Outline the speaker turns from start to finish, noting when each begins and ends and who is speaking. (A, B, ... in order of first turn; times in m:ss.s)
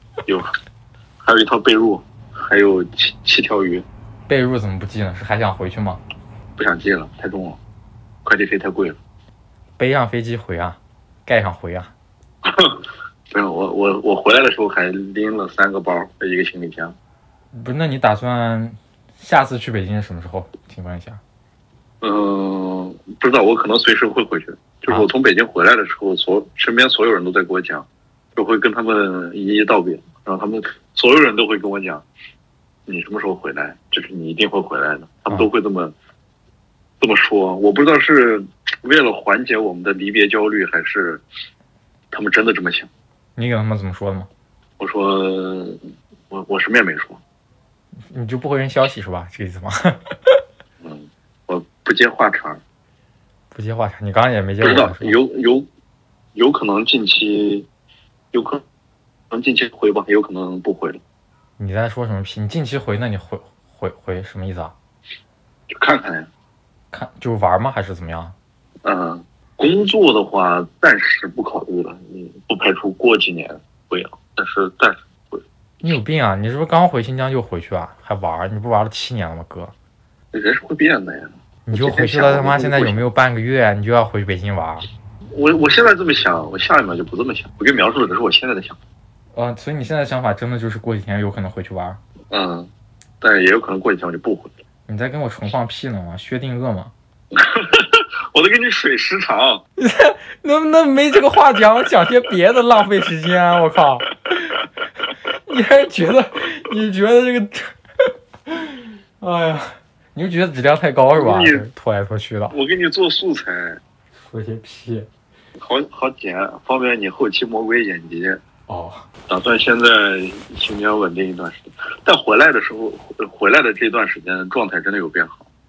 0:01.2-0:03.8 A
0:04.3-0:06.0 B
0:06.6-0:07.6 A
0:08.2-0:09.0 A
0:09.8-0:11.9 B
0:12.4-0:17.0 A
0:17.5-0:21.2 B
0:22.0-0:32.0 A
0:32.9-0:35.9 A
0:37.0-0:41.2 A
0:42.1-0:42.9 A
0:43.4-0:44.3 B
0:44.8-0:47.2 A
0:48.1-0:50.3 B
0:50.8-0:52.6 A
0:53.5-0:55.2 B
0:54.6-0:55.7 A
0:56.4-0:57.7 A
0:58.3-0:58.6 A
0:59.3-1:01.0 A
1:01.6-1:04.7 B
1:05.7-1:06.3 A
1:06.9-1:08.4 B
1:08.8-1:15.4 A
1:15.8-1:19.7 B
1:20.3-1:23.1 A
1:21.7-1:24.9 B
1:25.3-1:28.8 A
1:29.3-1:32.0 B
1:32.3-1:32.7 A
1:33.2-1:34.5 A
1:34.9-1:36.9 B
1:37.3-1:39.6 A
1:39.8-1:44.6 B
1:45.5-1:47.7 B
1:48.5-1:52.6 B
1:51.1-1:51.7 A
1:52.5-1:53.8 A
1:54.2-1:55.1 B
1:55.6-1:58.4 A
1:58.7-1:59.1 B
1:59.3-2:05.5 A